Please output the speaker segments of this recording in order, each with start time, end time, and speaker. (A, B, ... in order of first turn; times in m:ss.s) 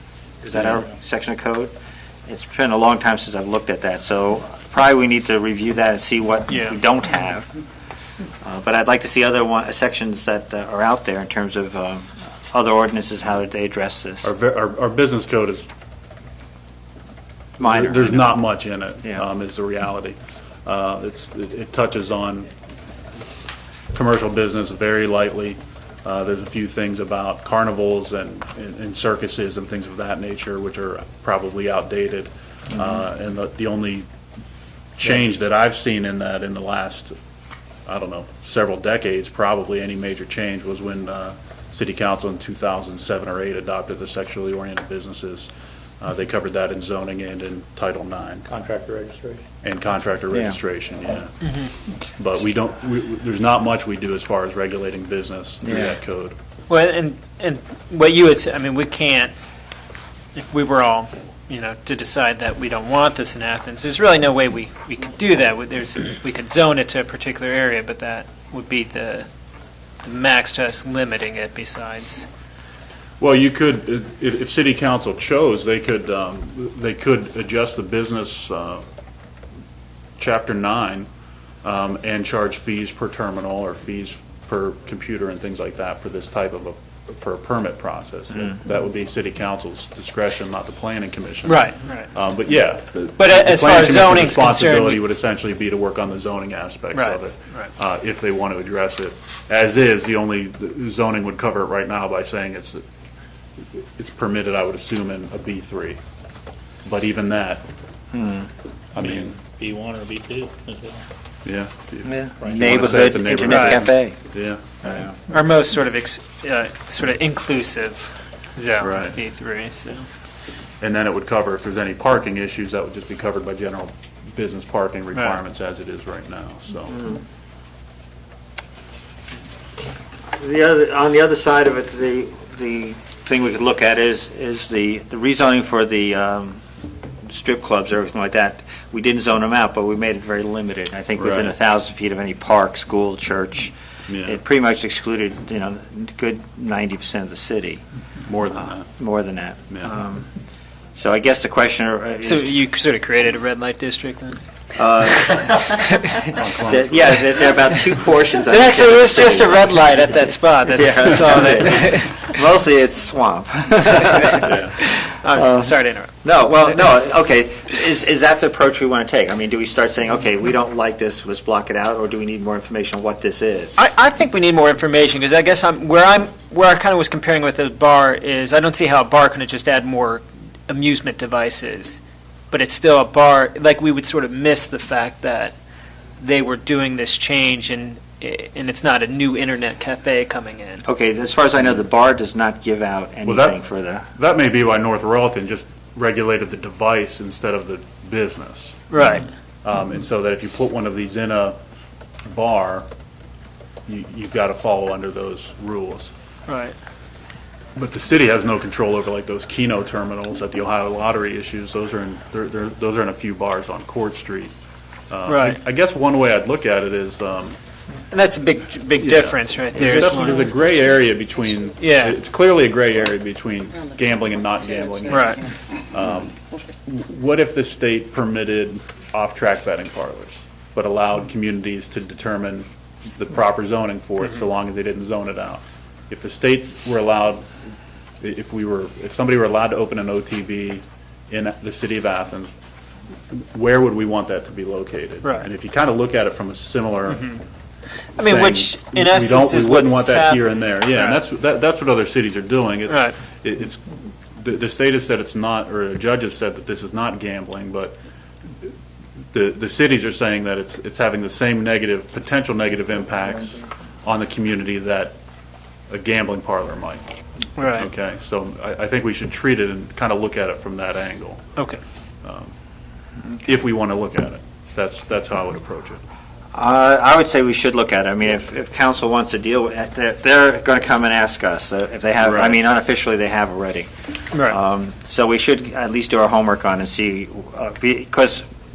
0:00.4-0:01.7 A
0:02.3-0:07.5 A
0:06.5-0:06.8 B
0:08.4-0:14.3 A
0:14.2-0:15.7 C
0:17.6-0:18.4 A
0:17.6-0:22.5 C
0:23.9-0:34.1 C
0:35.0-0:37.2 C
0:37.9-0:45.5 C
0:46.0-0:48.5 C
0:48.5-0:49.4 D
0:49.6-0:51.5 C
0:52.0-0:56.4 C
0:55.6-0:56.0 A
0:56.7-0:59.4 B
1:00.4-1:09.3 B
1:10.0-1:12.3 B
1:13.2-1:18.8 C
1:20.2-1:21.1 C
1:21.6-1:42.8 C
1:31.5-1:32.1 B
1:33.2-1:35.0 B
1:36.9-1:37.7 B
1:43.7-1:46.0 C
1:46.8-1:47.7 C
1:48.1-1:48.5 A
1:49.0-1:49.3 C
1:49.0-1:51.0 D
1:51.4-1:54.6 C
1:52.1-1:54.2 A
1:52.4-1:53.2 D
1:53.4-1:53.8 B
1:54.8-1:55.1 A
1:55.3-2:00.1 B
1:58.8-1:59.2 C
2:00.8-2:07.0 C
2:10.3-2:16.6 A
2:17.2-2:23.7 A
2:21.2-2:21.6 C
2:24.1-2:24.4 C
2:24.2-2:27.8 A
2:28.2-2:28.9 C
2:28.9-2:30.3 A
2:31.0-2:32.6 A
2:32.2-2:34.4 B
2:34.8-2:39.7 A
2:35.3-2:36.3 B
2:36.4-2:37.2 C
2:38.4-2:42.3 B
2:40.7-2:44.6 A
2:43.9-2:46.5 B
2:44.4-2:44.7 C
2:45.4-2:53.8 A
2:53.8-3:02.0 B
3:02.5-3:05.6 B
3:06.2-3:10.8 B
3:10.9-3:14.1 A
3:13.3-3:13.6 C
3:14.2-3:18.9 C
3:18.9-3:19.3 B
3:19.6-3:21.6 C
3:22.3-3:22.9 C
3:23.9-3:26.1 C
3:26.5-3:26.8 B
3:27.8-3:34.5 C
3:35.1-3:37.6 C
3:35.3-3:35.6 B
3:38.1-3:40.5 B
3:39.0-3:57.4 C
3:41.8-3:42.2 B
3:45.1-3:45.5 B
3:58.2-4:02.5 C
4:03.3-4:07.3 C
4:05.2-4:05.5 B
4:08.2-4:11.2 B
4:08.2-4:18.0 C
4:12.9-4:13.2 B
4:19.3-4:25.2 C
4:25.9-4:27.0 C
4:27.6-4:27.9 B
4:27.8-4:31.5 C
4:32.2-4:32.5 C
4:33.4-4:36.0 C
4:36.5-4:43.9 A
4:42.2-4:42.6 C
4:44.4-4:48.4 A